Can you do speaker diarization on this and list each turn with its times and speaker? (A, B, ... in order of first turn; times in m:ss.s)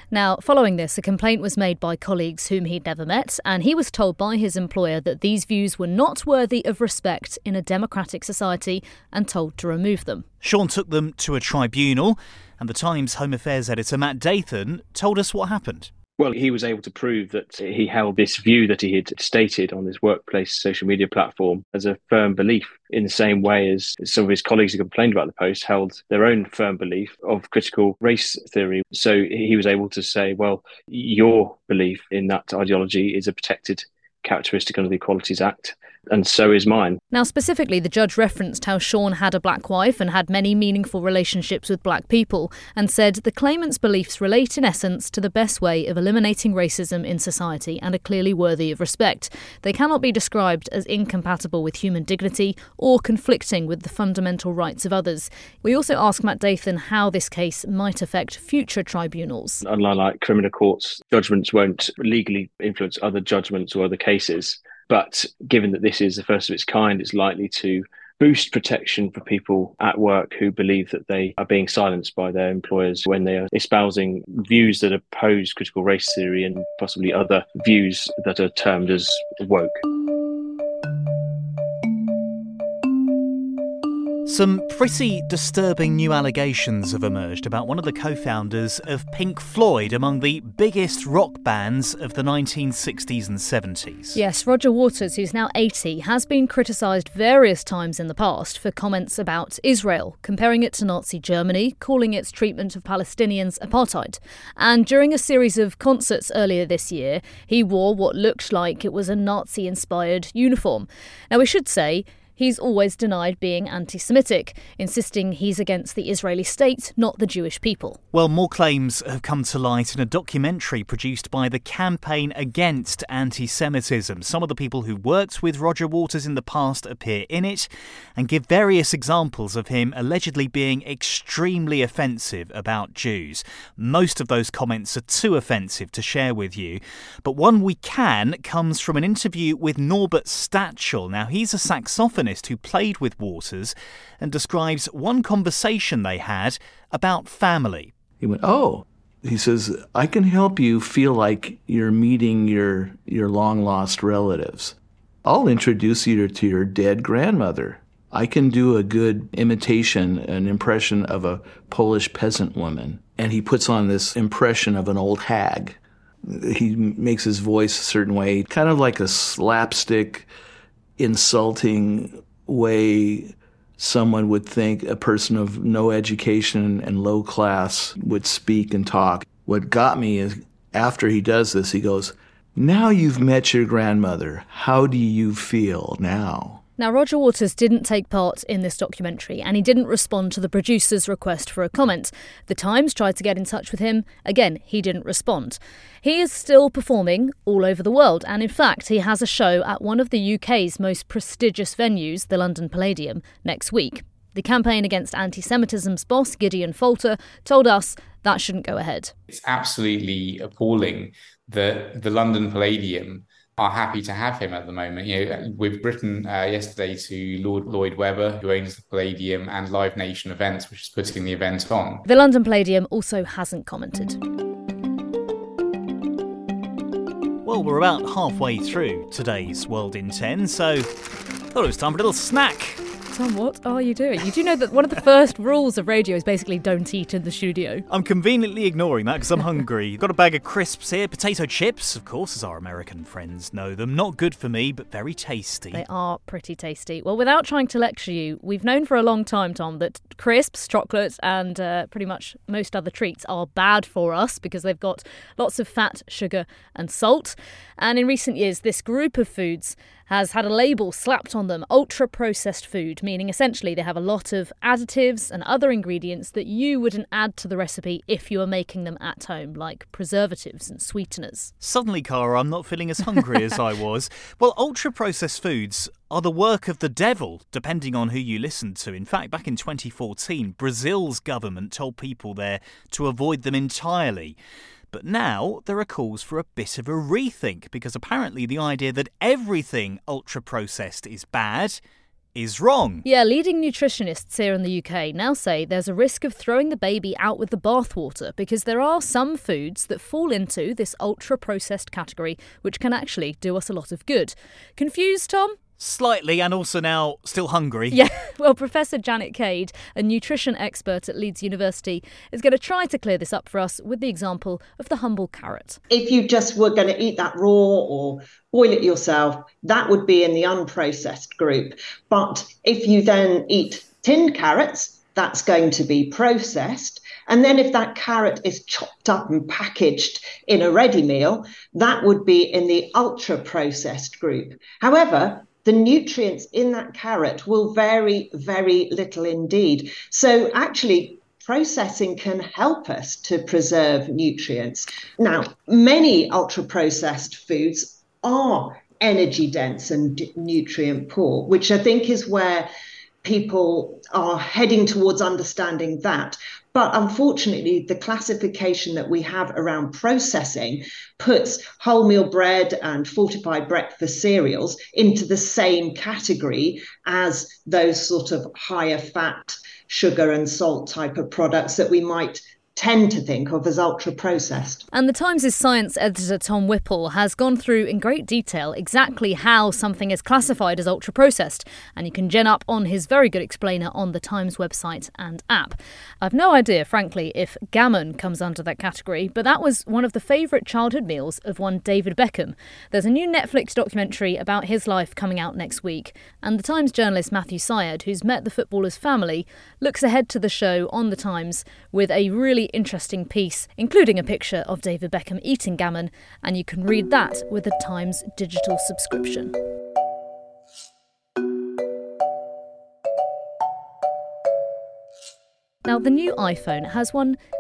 0:00.1-0:10.3 A
0:10.4-0:15.9 B
0:16.2-0:37.0 C
0:37.1-0:59.6 A
0:59.6-1:19.8 C
1:24.3-1:34.2 B
1:34.1-1:58.0 A
1:58.1-2:27.9 B
2:28.2-2:45.8 D
2:46.3-2:50.3 D
2:51.0-3:06.6 D
3:06.8-3:29.1 A
3:29.3-3:42.0 E
3:42.0-3:44.2 A
3:47.4-3:50.9 B
3:51.5-3:52.8 B
3:53.1-3:57.9 A
3:57.9-4:05.8 B
4:05.7-4:31.5 A
4:31.6-4:44.4 B
4:44.9-4:51.8 B
4:52.4-4:53.0 B
4:53.0-5:05.6 A
5:05.8-5:08.0 B
5:07.9-5:15.8 A
5:15.9-5:52.7 F
5:53.2-6:14.8 F
6:14.9-6:49.5 A
6:55.8-6:57.4 A